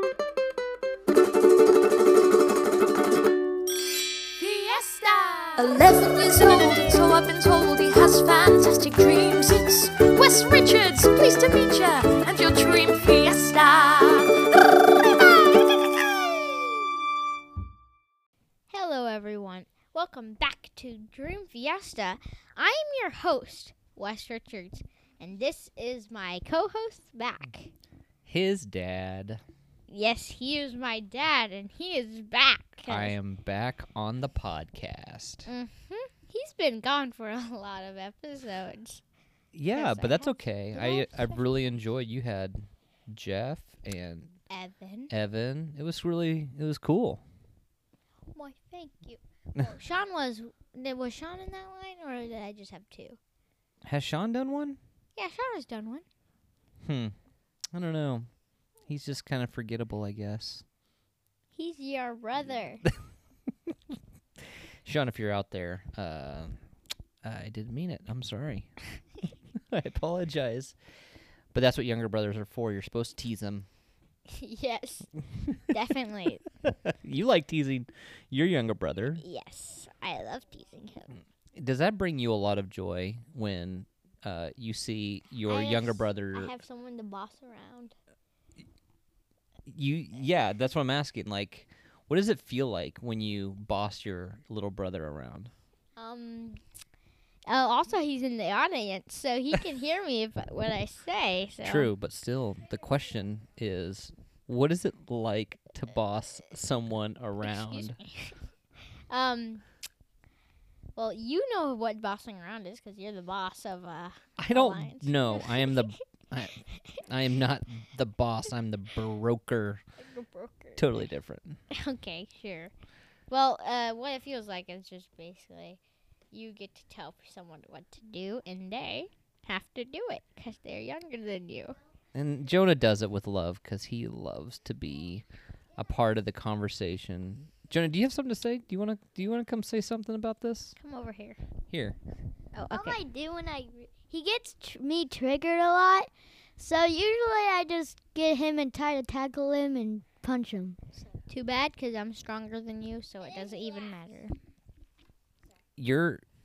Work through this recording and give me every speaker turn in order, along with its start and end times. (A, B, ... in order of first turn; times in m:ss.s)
0:04.4-0:14.5 A
0:14.7-0:16.6 B
0:18.7-0:27.7 B
0:28.2-0:29.4 C
0:29.9-0:33.1 B
0:32.9-0:35.5 C
0:35.4-0:39.0 B
0:39.5-0:44.3 C
0:39.7-0:41.4 B
0:44.5-0:45.1 B
0:45.1-0:47.2 C
0:48.3-0:53.2 B
0:53.8-0:54.8 C
0:55.1-0:56.0 B
0:56.8-0:57.1 C
0:57.7-0:58.3 C
0:58.9-1:00.6 C
1:01.5-1:02.8 B
1:04.8-1:06.6 C
1:07.2-1:08.7 C
1:09.5-1:10.8 C
1:11.5-1:13.7 C
1:14.3-1:15.1 B
1:15.7-1:16.4 B
1:16.6-1:19.2 C
1:19.2-1:21.2 B
1:21.5-1:26.6 C
1:25.5-1:28.0 B
1:29.7-1:35.5 C
1:36.0-1:36.6 B
1:37.5-1:41.9 B
1:41.6-1:48.0 C
1:47.4-1:48.4 B
1:49.1-1:49.6 B
1:51.0-1:56.0 B
1:54.4-1:56.6 C
1:56.7-1:57.0 B
1:57.1-1:59.8 C
2:00.0-2:00.8 B
2:00.8-2:01.6 C
2:01.7-2:02.7 B
2:03.3-2:05.8 B
2:06.3-2:11.8 B
2:12.1-2:15.2 C
2:15.8-2:20.8 C
2:20.8-2:21.4 B
2:21.7-2:22.0 C
2:22.5-2:23.0 B
2:22.7-2:26.1 D
2:26.6-2:30.9 D
2:31.3-2:34.3 B
2:35.8-2:36.2 C